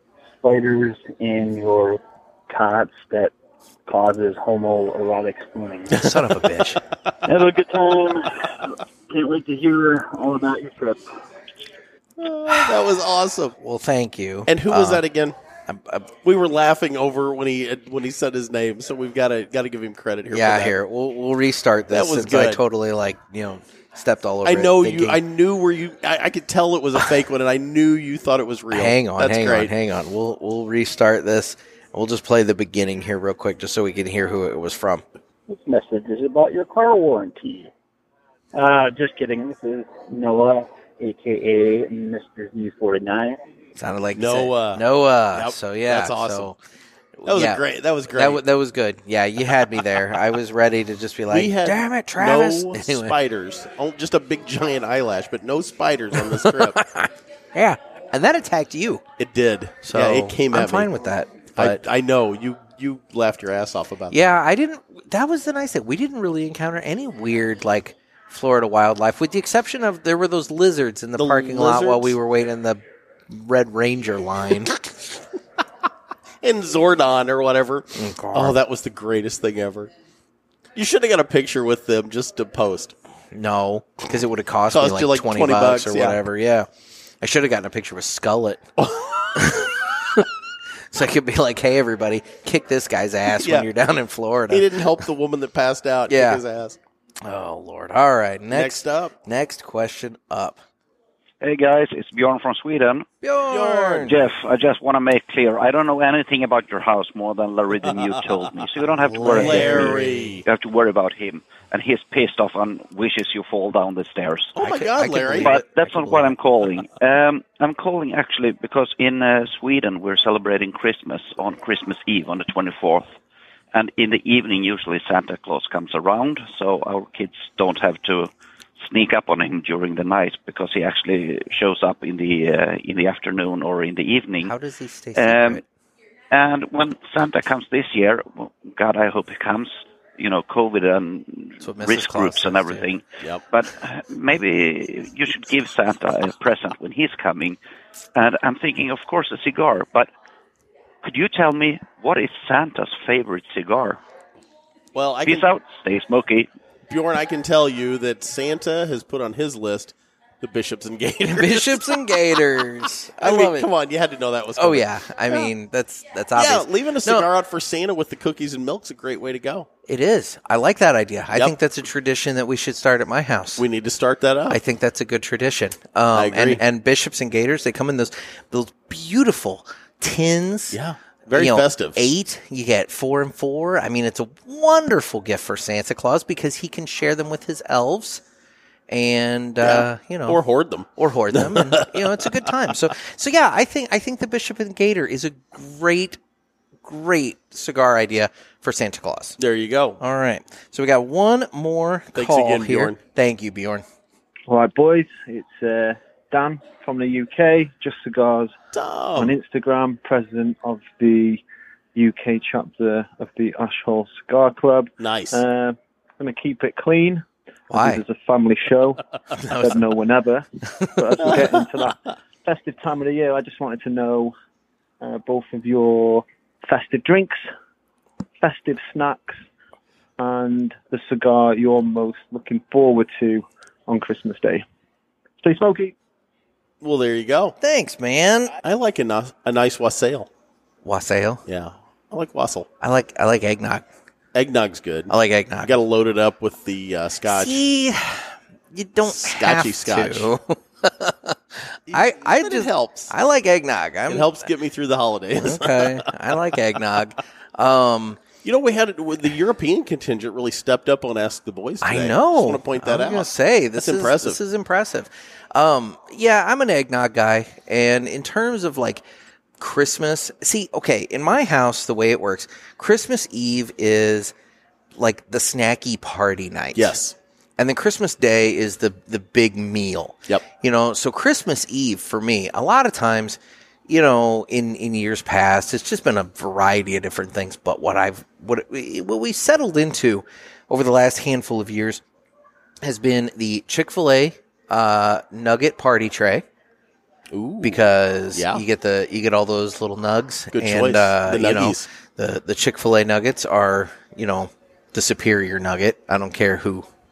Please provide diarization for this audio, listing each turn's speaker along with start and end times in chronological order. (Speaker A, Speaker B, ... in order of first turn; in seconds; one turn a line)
Speaker A: 0.4-3.3
Speaker A: 3.9-6.1
Speaker B: 5.9-6.8
Speaker A: 7.2-11.1
Speaker C: 12.2-13.6
Speaker B: 13.6-15.1
Speaker C: 14.5-15.4
Speaker B: 15.7-16.1
Speaker C: 16.2-20.8
Speaker B: 20.3-25.2
Speaker C: 21.9-22.6
Speaker C: 24.4-29.7
Speaker B: 28.7-35.0
Speaker A: 35.5-37.7
Speaker A: 38.5-43.4
Speaker B: 43.8-46.6
Speaker C: 44.1-46.5
Speaker B: 47.2-53.2
Speaker C: 47.3-48.4
Speaker C: 51.3-56.8
Speaker B: 56.1-59.0
Speaker C: 59.2-60.9
Speaker B: 59.8-61.8
Speaker C: 61.6-64.3
Speaker B: 64.1-74.8
Speaker C: 71.2-72.2
Speaker C: 76.4-79.9
Speaker B: 78.0-78.6
Speaker C: 80.8-83.0
Speaker B: 83.3-86.7
Speaker C: 84.7-86.2
Speaker B: 87.2-88.7
Speaker C: 88.8-89.4
Speaker B: 89.3-90.3
Speaker B: 90.9-95.0
Speaker C: 93.3-93.7
Speaker C: 94.5-96.8
Speaker B: 96.1-96.4
Speaker B: 97.2-100.6
Speaker C: 98.5-99.2
Speaker D: 101.4-103.1
Speaker B: 103.2-104.2
Speaker C: 103.5-104.1
Speaker D: 104.1-114.5
Speaker B: 109.0-110.4
Speaker C: 109.2-110.4
Speaker C: 114.6-115.5
Speaker B: 114.6-116.4
Speaker D: 115.4-123.1
Speaker D: 123.7-134.5
Speaker B: 134.4-135.7
Speaker D: 135.2-135.6
Speaker D: 136.3-147.6
Speaker B: 141.6-142.9
Speaker D: 148.2-150.1
Speaker D: 151.0-154.0
Speaker C: 154.9-155.5
Speaker D: 155.2-156.5
Speaker C: 156.9-162.1
Speaker B: 161.2-163.7
Speaker C: 163.2-165.5
Speaker B: 164.6-167.3
Speaker C: 166.3-169.7
Speaker B: 169.9-173.7
Speaker C: 173.6-174.6
Speaker B: 174.5-180.8
Speaker C: 176.1-176.6
Speaker C: 180.7-182.1
Speaker B: 181.3-188.2
Speaker B: 188.9-190.4
Speaker C: 189.6-192.4
Speaker B: 191.0-196.2
Speaker B: 196.8-199.4
Speaker C: 199.4-200.0
Speaker B: 200.0-203.8
Speaker C: 202.2-203.0
Speaker E: 204.5-208.6
Speaker C: 208.7-209.4
Speaker E: 209.2-211.4
Speaker E: 211.9-224.3
Speaker C: 215.0-215.4
Speaker B: 217.7-218.0
Speaker B: 219.3-219.9
Speaker B: 220.8-221.5
Speaker C: 221.2-221.6
Speaker E: 225.0-227.4
Speaker E: 228.4-229.4
Speaker E: 230.2-234.7
Speaker E: 235.4-235.9
Speaker C: 236.8-237.6
Speaker B: 237.6-238.6
Speaker C: 238.6-240.3
Speaker B: 240.8-241.4
Speaker C: 241.5-242.7
Speaker B: 242.8-243.8
Speaker C: 244.3-247.6
Speaker B: 245.1-245.8
Speaker B: 247.3-254.5
Speaker C: 249.1-250.3
Speaker C: 251.9-253.2
Speaker C: 254.1-256.4
Speaker B: 255.4-258.2
Speaker C: 258.4-264.4
Speaker B: 261.8-269.0
Speaker B: 269.6-274.3
Speaker B: 275.0-277.0
Speaker C: 276.8-277.2
Speaker B: 277.6-292.0
Speaker B: 292.8-296.4
Speaker C: 297.3-297.8
Speaker B: 297.6-306.9
Speaker C: 298.3-298.6
Speaker C: 300.5-301.9